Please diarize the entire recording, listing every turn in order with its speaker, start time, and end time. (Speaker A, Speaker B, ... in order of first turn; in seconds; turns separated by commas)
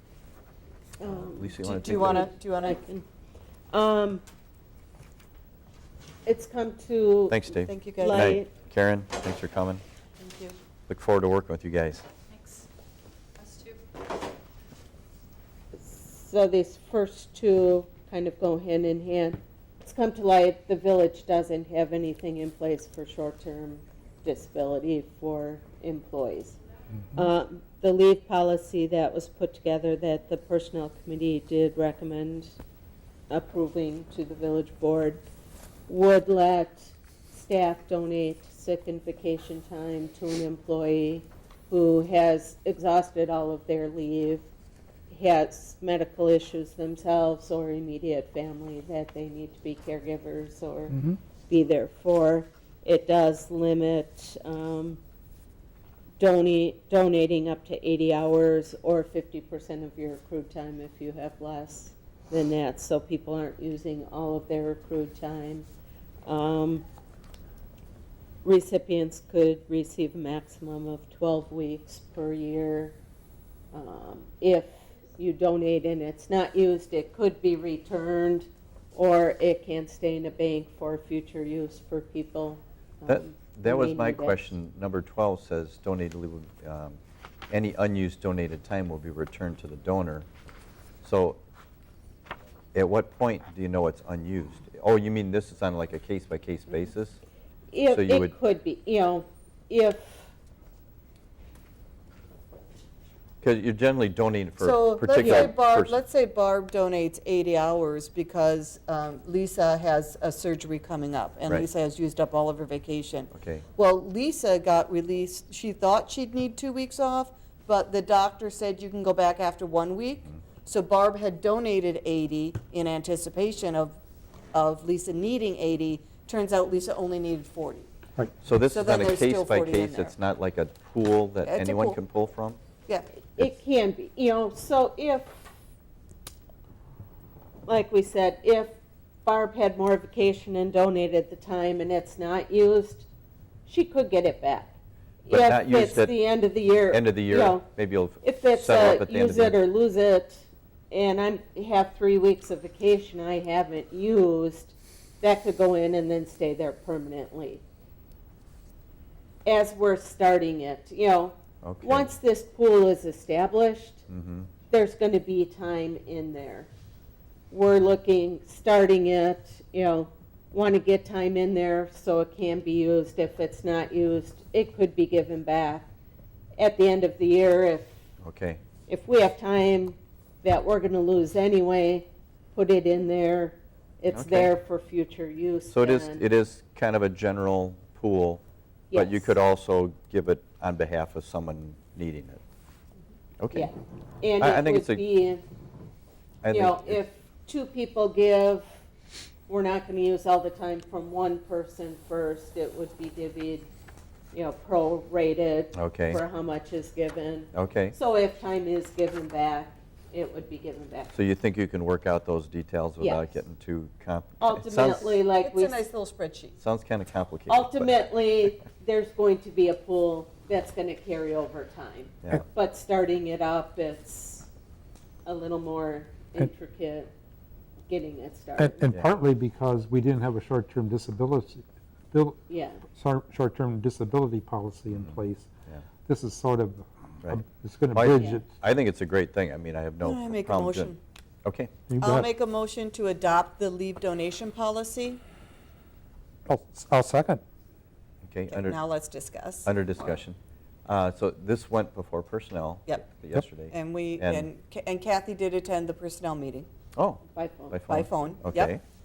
Speaker A: 1.0-1.6, Speaker B: 1.0-2.3, Speaker C: 1.6-2.8, Speaker A: 2.1-3.0, Speaker A: 3.7-4.2, Speaker A: 6.3-7.5, Speaker B: 7.3-9.8, Speaker C: 7.7-8.3, Speaker A: 8.0-8.5, Speaker C: 10.2-10.6, Speaker B: 10.9-12.1, Speaker A: 15.7-26.6, Speaker A: 27.2-32.5, Speaker A: 33.3-35.2, Speaker A: 35.9-44.4, Speaker A: 45.1-50.9, Speaker A: 51.5-55.0, Speaker A: 56.2-65.7, Speaker A: 66.3-66.8, Speaker A: 68.5-73.0, Speaker A: 73.7-84.5, Speaker B: 83.1-87.0, Speaker B: 87.5-90.3, Speaker B: 91.0-91.4, Speaker B: 92.7-97.2, Speaker A: 97.7-100.3, Speaker B: 97.9-98.3, Speaker B: 103.4-106.0, Speaker C: 104.6-124.0, Speaker B: 113.3-113.6, Speaker C: 124.5-127.9, Speaker B: 128.4-132.6, Speaker C: 128.7-130.2, Speaker C: 131.4-132.0, Speaker A: 133.4-135.5, Speaker A: 137.7-143.1, Speaker A: 143.7-144.7, Speaker A: 145.3-147.7, Speaker B: 145.3-146.1, Speaker B: 146.9-149.6, Speaker A: 148.2-157.6, Speaker A: 159.4-164.0, Speaker B: 161.6-162.1, Speaker B: 164.1-164.5, Speaker A: 164.7-166.7, Speaker A: 167.5-175.9, Speaker A: 176.6-178.0, Speaker B: 178.2-178.6, Speaker A: 178.9-186.2, Speaker B: 184.1-184.5, Speaker B: 185.7-192.4, Speaker A: 188.9-189.3, Speaker B: 193.4-193.7, Speaker A: 193.5-195.4, Speaker B: 194.4-195.0, Speaker B: 196.4-197.0, Speaker A: 196.5-198.7, Speaker A: 199.5-203.7, Speaker A: 204.3-211.1, Speaker B: 205.7-206.2, Speaker B: 207.5-207.9, Speaker B: 211.1-215.2, Speaker A: 213.0-213.3, Speaker A: 214.4-215.8, Speaker C: 215.3-216.6, Speaker B: 216.6-218.0, Speaker A: 217.5-224.5, Speaker A: 225.2-227.1, Speaker A: 227.9-228.9, Speaker D: 228.6-232.4, Speaker A: 232.5-232.8, Speaker D: 232.9-235.5, Speaker B: 234.9-235.8, Speaker D: 236.1-238.5, Speaker B: 237.9-240.9, Speaker A: 238.2-238.4, Speaker C: 240.0-241.0, Speaker B: 241.4-241.7, Speaker D: 241.9-242.3, Speaker C: 242.0-245.2, Speaker D: 246.5-247.4, Speaker B: 248.2-248.8, Speaker C: 248.5-250.2, Speaker B: 249.7-254.5, Speaker C: 253.7-256.7, Speaker B: 257.0-258.8, Speaker A: 257.4-257.8, Speaker C: 257.9-258.8